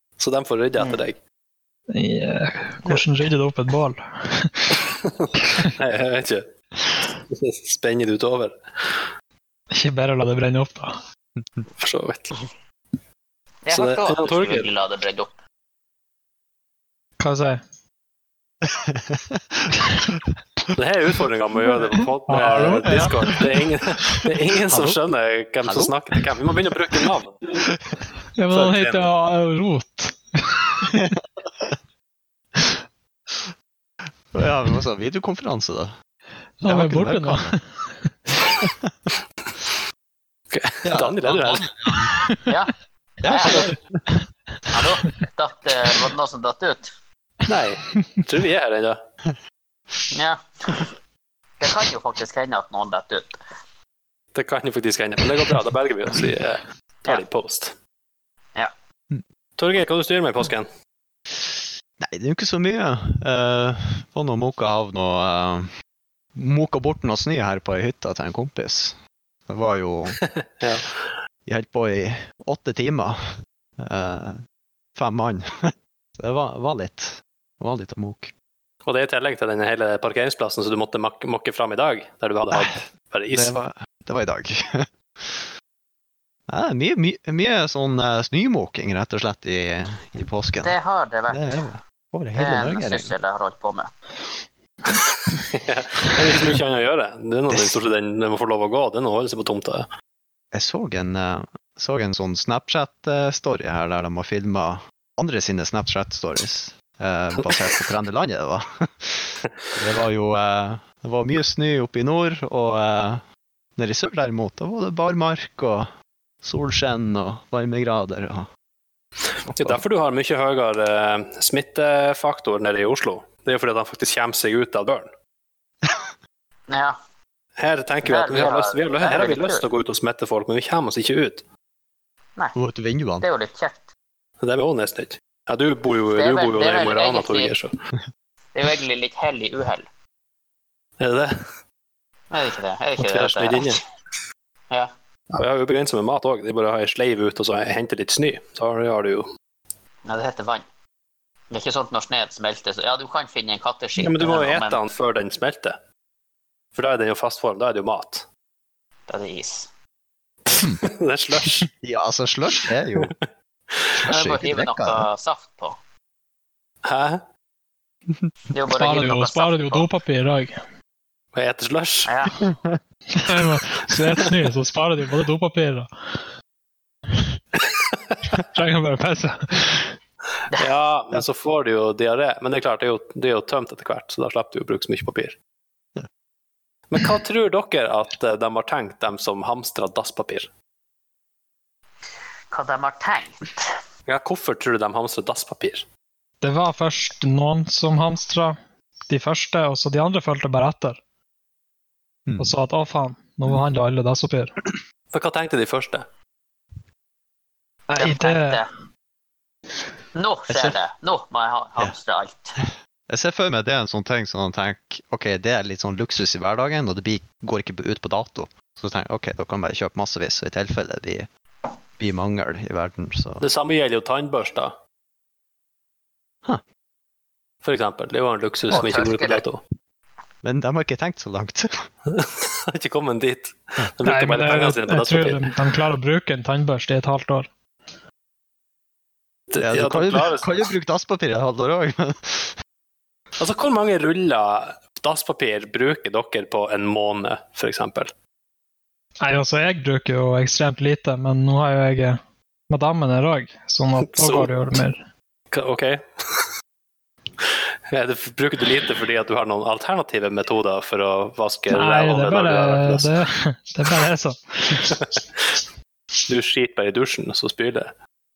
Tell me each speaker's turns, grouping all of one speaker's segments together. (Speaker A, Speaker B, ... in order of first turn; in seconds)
Speaker A: 0.2-1.2, 5.0-6.5, 7.2-9.1, 11.8-12.4, 13.7-14.7, 20.8-27.4, 28.5-29.1, 40.5-41.9, 43.4-43.7, 47.5-49.0, 54.3-57.7, 59.6-60.7, 70.6-70.9, 78.8-83.5, 95.5-99.9, 119.5-125.1, 127.6-131.4, 134.4-137.7, 141.0-141.4, 143.0-143.8, 145.3-149.3, 154.0-155.8, 156.8-158.3, 160.5-161.7, 166.8-167.2, 171.3-172.1, 177.6-177.9, 180.5-185.3, 186.9-190.5, 194.1-195.8, 205.1-206.1, 223.4-224.7, 227.6-229.6, 232.1-235.5, 239.5-240.7, 243.4-248.1, 254.1-254.5, 255.5-256.5, 257.4-263.2, 264.8-265.2, 266.3-267.9
Speaker B: 0.8-1.0, 13.7-15.3, 42.5-43.7, 44.7-46.9, 50.1-50.9, 51.6-53.4, 90.6-91.4, 92.3-93.9, 126.7-127.0, 128.0-129.7, 133.2-133.8, 136.1-137.5, 138.5-139.9, 142.3-143.8, 150.0-150.7, 151.5-154.8, 159.1-159.7, 164.1-165.8, 168.5-169.8, 172.1-172.4, 192.5-193.8, 208.0-208.7, 210.1-212.6, 228.7-229.4
Speaker C: 1.9-4.9, 9.7-11.0, 17.2-17.6, 22.3-23.4, 28.3-30.9, 36.6-38.0, 168.7-170.6, 173.1-176.2, 178.4-180.0, 196.4-198.6, 199.1-201.0, 202.4-204.5, 207.9-208.6, 234.0-237.5, 249.2-255.0, 261.7-265.0
Speaker D: 18.6-20.2, 22.9-23.4, 24.7-25.0, 25.6-25.9, 27.7-28.0, 30.9-31.7, 34.3-35.9, 36.6-37.6, 38.6-38.9, 40.8-42.2, 43.2-44.0, 62.0-65.7, 66.3-69.0, 69.5-70.2, 71.5-74.4, 75.0-78.3, 82.5-85.5, 86.5-90.7, 91.3-93.1, 97.5-97.8, 100.5-113.2, 113.8-115.9, 116.4-118.5, 119.5-119.8, 132.5-133.3, 160.5-160.8, 161.8-163.1, 163.9-165.1, 172.4-172.8, 202.3-202.5, 210.5-210.8, 212.6-221.3, 222.0-223.4, 230.4-231.9, 239.6-242.5